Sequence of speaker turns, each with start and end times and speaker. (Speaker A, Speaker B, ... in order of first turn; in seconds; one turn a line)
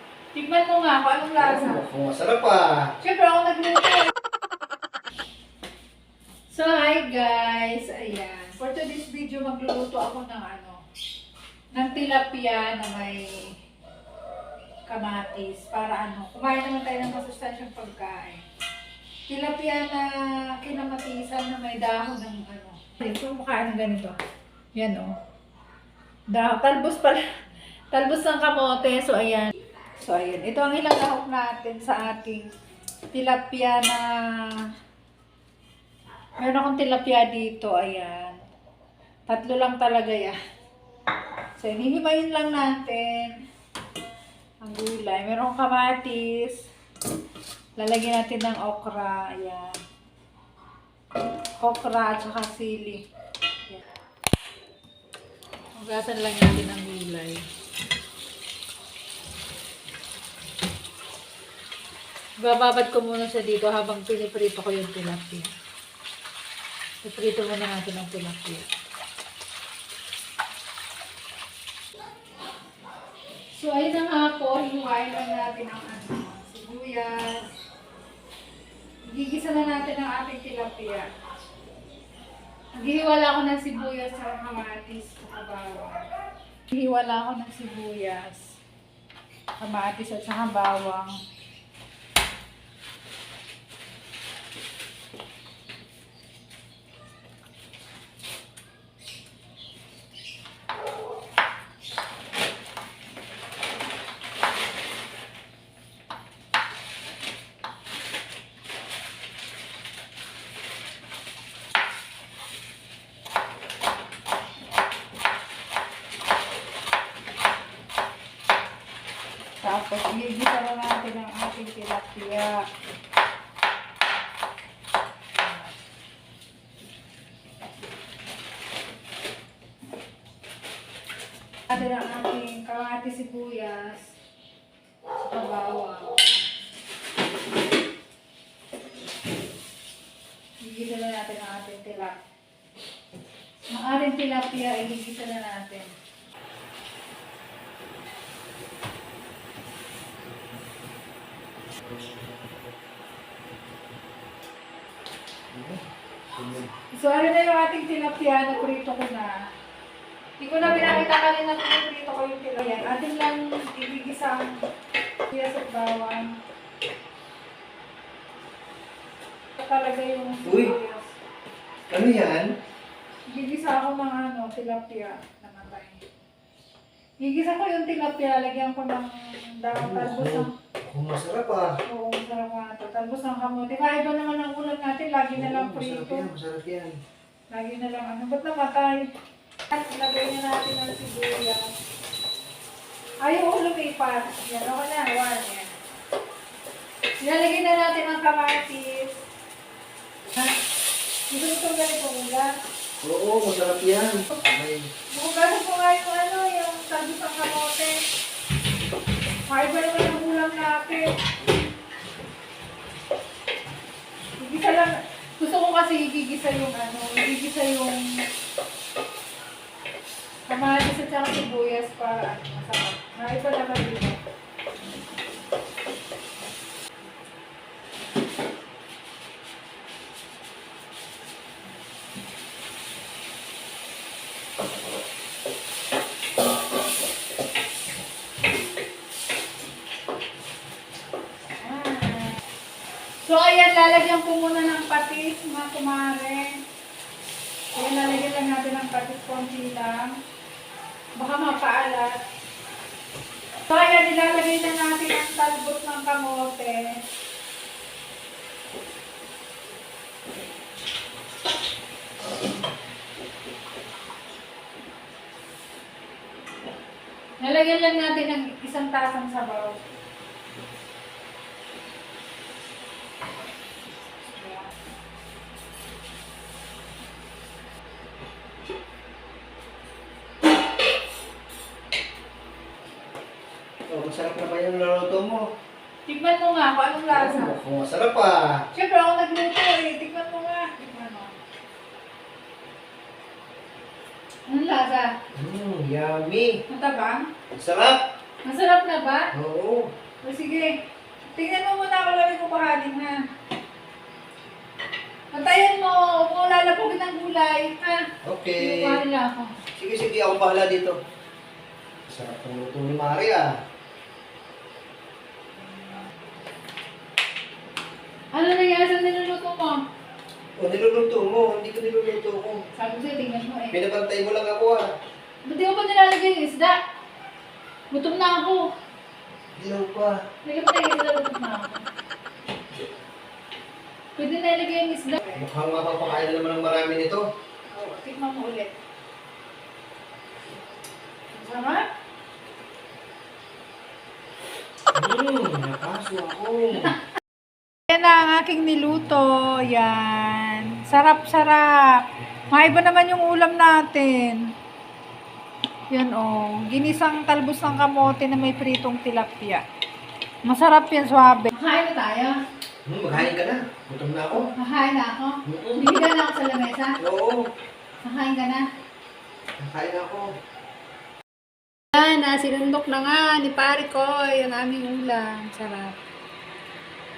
Speaker A: 0.3-1.9
Speaker B: 1.4-2.9
Speaker A: 3.0-4.1
Speaker A: 6.5-10.8
Speaker A: 11.7-13.6
Speaker A: 14.9-18.4
Speaker A: 19.3-24.1
Speaker A: 24.8-25.1
Speaker A: 26.3-27.2
Speaker A: 27.9-32.5
Speaker A: 33.1-34.7
Speaker A: 36.4-38.4
Speaker A: 39.3-40.4
Speaker A: 41.6-43.4
Speaker A: 44.6-46.6
Speaker A: 47.8-49.8
Speaker A: 51.6-53.0
Speaker A: 55.8-57.5
Speaker A: 62.4-65.5
Speaker A: 67.0-68.7
Speaker A: 73.5-77.5
Speaker A: 79.1-81.1
Speaker A: 82.8-86.1
Speaker A: 86.7-88.5
Speaker A: 89.6-91.2
Speaker A: 119.6-122.6
Speaker A: 131.7-134.1
Speaker A: 135.2-136.3
Speaker A: 140.6-142.2
Speaker A: 143.7-145.9
Speaker B: 155.5-156.7
Speaker A: 156.9-159.3
Speaker A: 160.4-164.6
Speaker A: 165.3-166.3
Speaker A: 169.6-171.1
Speaker B: 170.4-170.7
Speaker B: 171.9-172.5
Speaker A: 173.3-176.0
Speaker A: 177.2-180.5
Speaker B: 179.8-181.8
Speaker A: 181.9-186.3
Speaker B: 185.3-187.0
Speaker A: 187.5-189.1
Speaker A: 189.7-191.7
Speaker A: 193.2-195.7
Speaker A: 197.2-199.2
Speaker A: 201.3-202.5
Speaker B: 203.0-204.9
Speaker A: 205.1-208.0
Speaker A: 209.5-211.1
Speaker A: 214.4-218.2
Speaker A: 220.5-224.2
Speaker A: 241.6-242.4
Speaker A: 243.2-246.6
Speaker A: 247.7-250.1
Speaker A: 251.2-252.1
Speaker A: 253.7-257.0
Speaker A: 267.4-269.8
Speaker A: 274.4-274.7
Speaker B: 283.9-285.4
Speaker A: 286.1-287.6
Speaker B: 287.1-288.6
Speaker A: 288.7-291.4
Speaker A: 294.5-295.1
Speaker B: 295.4-296.6
Speaker A: 296.7-297.3
Speaker B: 297.5-298.0
Speaker A: 298.4-299.3
Speaker B: 299.3-299.9
Speaker A: 300.2-300.8
Speaker A: 301.3-303.2
Speaker A: 305.3-308.0
Speaker B: 308.2-309.0
Speaker A: 308.6-309.6
Speaker B: 309.8-311.0
Speaker B: 312.1-313.5
Speaker A: 318.3-319.8
Speaker B: 320.6-322.6
Speaker A: 322.8-323.8
Speaker B: 323.7-324.9
Speaker A: 325.4-326.8
Speaker A: 327.9-328.6
Speaker B: 329.6-330.1
Speaker A: 330.4-331.9
Speaker A: 334.2-335.4
Speaker B: 335.3-337.2
Speaker A: 337.7-338.8
Speaker A: 341.3-341.9
Speaker B: 344.9-346.9
Speaker A: 347.9-354.5
Speaker A: 355.9-359.6
Speaker A: 360.5-362.4
Speaker B: 362.9-364.5
Speaker A: 364.6-367.0
Speaker B: 365.5-365.9
Speaker B: 367.0-367.5
Speaker A: 368.0-368.6
Speaker B: 369.6-370.3
Speaker A: 371.9-376.0